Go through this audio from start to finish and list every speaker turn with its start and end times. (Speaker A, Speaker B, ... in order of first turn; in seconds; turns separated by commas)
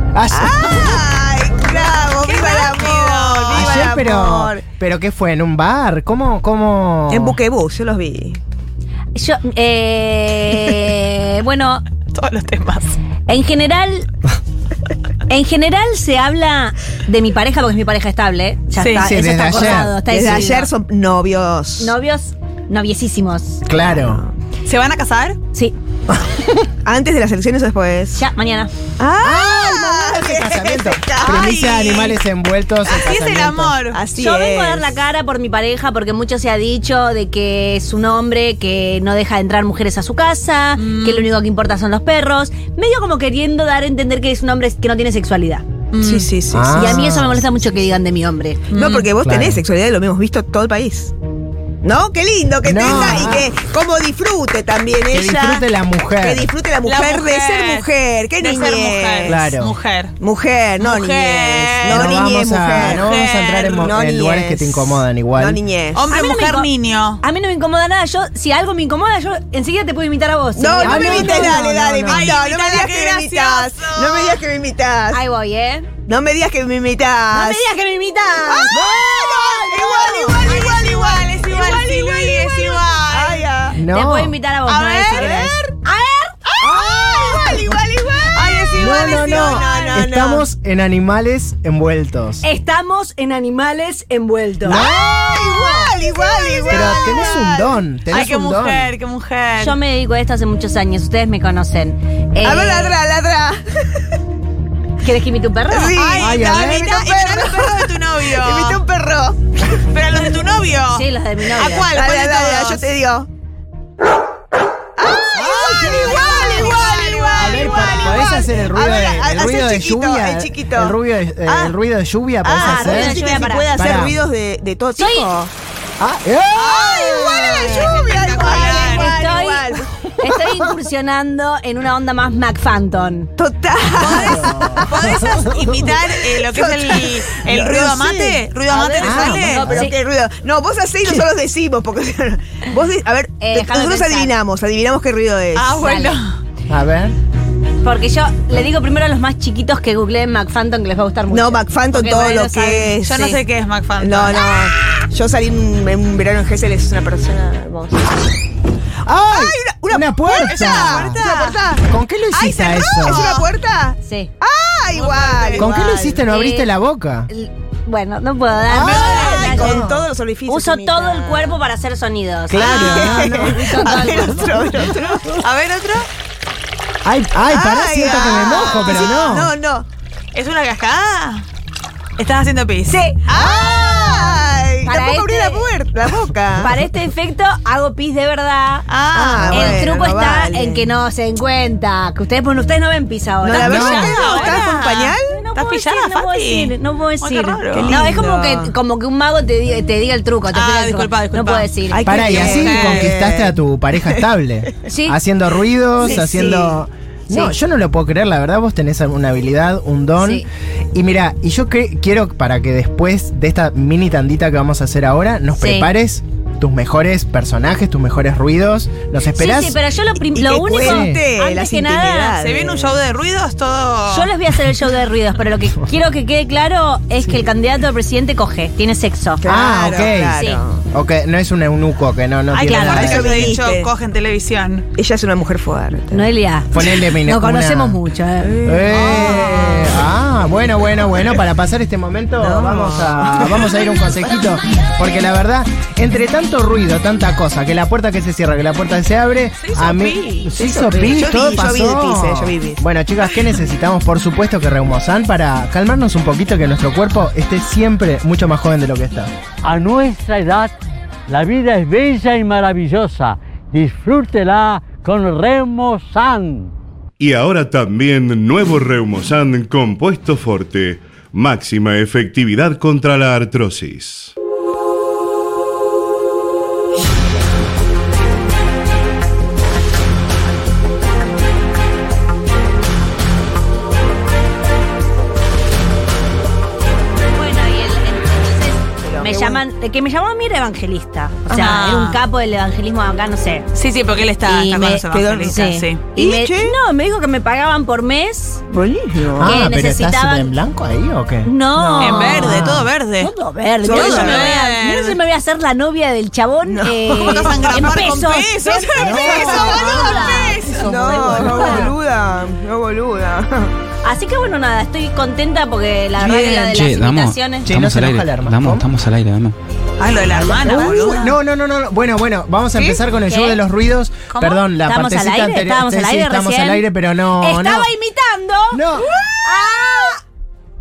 Speaker A: 0.1-1.0, Speaker B: 0.3-4.6, Speaker C: 2.1-3.9, Speaker A: 3.5-7.4, Speaker B: 7.1-8.4, Speaker D: 9.1-11.8, Speaker C: 12.1-13.0, Speaker D: 13.3-14.1, Speaker D: 15.3-20.7, Speaker C: 18.8-19.1, Speaker A: 19.0-19.9, Speaker B: 20.1-21.9, Speaker D: 21.8-23.6, Speaker A: 23.6-24.2, Speaker B: 23.8-24.3, Speaker C: 24.6-25.4, Speaker A: 26.1-26.6, Speaker B: 26.8-28.2, Speaker D: 28.1-28.7, Speaker B: 29.0-31.7, Speaker A: 29.2-33.8, Speaker C: 31.2-32.2, Speaker C: 32.9-34.0, Speaker B: 33.9-35.0, Speaker D: 34.1-45.6, Speaker C: 40.8-41.3, Speaker C: 45.9-46.3, Speaker B: 46.0-47.1, Speaker A: 46.5-47.4, Speaker D: 46.7-48.6, Speaker C: 48.7-49.1, Speaker B: 48.7-51.1, Speaker A: 49.2-49.6, Speaker B: 51.8-59.4, Speaker A: 52.6-53.5, Speaker A: 55.1-56.5, Speaker C: 56.8-60.1, Speaker A: 59.2-59.8, Speaker B: 60.2-63.0, Speaker C: 60.8-63.9, Speaker A: 61.8-65.6, Speaker B: 63.7-66.1, Speaker C: 65.9-67.2, Speaker D: 66.1-66.7, Speaker D: 67.2-72.3, Speaker B: 70.5-75.2, Speaker A: 70.8-72.2, Speaker C: 71.2-74.4, Speaker D: 75.1-75.9, Speaker B: 76.0-77.6, Speaker D: 77.3-78.9, Speaker B: 78.5-83.8, Speaker C: 79.5-83.5, Speaker A: 83.7-84.3, Speaker D: 83.8-86.4, Speaker B: 84.7-85.7, Speaker C: 85.1-85.5, Speaker B: 86.6-90.5, Speaker D: 86.9-87.7, Speaker C: 88.4-90.1, Speaker A: 88.8-92.4, Speaker D: 92.4-94.9, Speaker A: 94.6-95.5, Speaker B: 94.7-97.8, Speaker D: 96.0-97.2, Speaker A: 96.7-98.9, Speaker C: 98.1-99.8, Speaker D: 99.6-102.9, Speaker B: 102.4-104.0, Speaker D: 105.0-106.0, Speaker B: 105.7-109.4, Speaker C: 105.9-108.8, Speaker A: 106.2-107.0, Speaker C: 109.7-112.9, Speaker D: 110.9-111.9, Speaker B: 111.9-113.3, Speaker B: 115.0-121.7, Speaker A: 115.3-116.7, Speaker C: 116.0-118.4, Speaker A: 117.4-124.2, Speaker B: 122.4-125.5, Speaker D: 122.5-123.7, Speaker D: 125.0-125.3, Speaker A: 126.0-128.4, Speaker B: 126.5-129.9, Speaker C: 127.7-129.2, Speaker D: 128.2-133.3, Speaker A: 130.2-130.7, Speaker B: 133.3-135.1, Speaker C: 133.9-139.7, Speaker A: 134.0-135.7, Speaker B: 136.1-138.4, Speaker D: 138.7-139.9, Speaker A: 139.0-139.9, Speaker B: 139.3-145.8, Speaker D: 143.4-144.3, Speaker C: 145.6-146.4, Speaker D: 145.7-146.2, Speaker A: 146.7-147.2, Speaker D: 147.8-153.4, Speaker B: 151.3-153.3, Speaker C: 153.0-154.5, Speaker B: 154.0-158.1, Speaker A: 159.0-161.2, Speaker B: 159.3-166.2, Speaker C: 160.4-161.6, Speaker A: 161.9-163.4, Speaker C: 163.0-163.4, Speaker D: 164.0-164.3, Speaker C: 164.9-165.8, Speaker A: 165.6-167.3, Speaker D: 166.0-166.7, Speaker D: 167.3-169.9, Speaker A: 168.7-170.0, Speaker C: 168.7-169.8, Speaker B: 169.0-171.6, Speaker D: 170.5-174.6, Speaker A: 172.5-174.8, Speaker B: 172.6-175.3, Speaker C: 174.9-176.1, Speaker A: 177.0-179.5, Speaker B: 177.5-179.8, Speaker C: 178.3-179.4, Speaker C: 180.3-181.4, Speaker C: 182.2-184.4, Speaker D: 182.8-183.2, Speaker B: 183.3-186.7, Speaker D: 184.8-185.7, Speaker D: 186.6-188.9, Speaker C: 188.9-189.9, Speaker B: 189.1-190.9, Speaker A: 189.4-189.7, Speaker D: 189.5-194.7, Speaker B: 193.4-195.4, Speaker C: 193.6-198.1, Speaker A: 193.6-194.1, Speaker D: 195.3-202.5, Speaker B: 197.7-198.7, Speaker C: 200.5-203.1, Speaker B: 201.9-204.2, Speaker A: 202.0-219.8, Speaker D: 204.8-205.2, Speaker B: 206.0-206.8, Speaker D: 207.3-207.5, Speaker D: 210.2-210.4, Speaker D: 215.6-215.9, Speaker D: 219.3-222.4, Speaker B: 220.2-223.0, Speaker A: 220.7-221.2, Speaker C: 222.4-224.3, Speaker D: 224.1-229.4, Speaker B: 229.4-230.8, Speaker A: 229.4-233.5, Speaker D: 230.3-230.6, Speaker C: 232.5-234.9, Speaker D: 232.6-233.1, Speaker B: 232.8-233.9, Speaker B: 234.9-236.3, Speaker D: 236.1-238.6, Speaker A: 236.7-238.0, Speaker B: 238.4-240.0, Speaker A: 238.6-259.3, Speaker C: 239.1-239.4, Speaker B: 242.4-243.7, Speaker C: 249.6-250.5, Speaker B: 250.5-252.8, Speaker E: 259.6-260.7, Speaker E: 261.3-266.7, Speaker F: 267.2-274.3, Speaker D: 287.3-293.6, Speaker B: 289.0-289.6, Speaker B: 291.5-291.8, Speaker C: 291.5-292.2, Speaker C: 293.7-296.0, Speaker D: 294.4-298.6, Speaker B: 295.1-296.8, Speaker B: 298.7-299.6, Speaker A: 299.3-301.5, Speaker D: 299.4-300.5, Speaker D: 301.4-310.6, Speaker B: 301.7-302.7, Speaker C: 302.0-303.3, Speaker A: 302.3-302.9, Speaker B: 303.8-304.6, Speaker C: 303.9-305.2, Speaker B: 306.7-307.9, Speaker C: 307.1-311.9, Speaker A: 309.0-311.9, Speaker B: 309.0-313.7, Speaker D: 311.3-311.9, Speaker D: 314.0-317.7, Speaker G: 316.5-319.6, Speaker A: 317.6-318.9, Speaker C: 320.0-321.4, Speaker A: 320.3-327.9, Speaker D: 322.9-323.6, Speaker C: 324.3-324.6, Speaker D: 324.8-326.9, Speaker D: 327.4-330.2, Speaker A: 328.7-329.1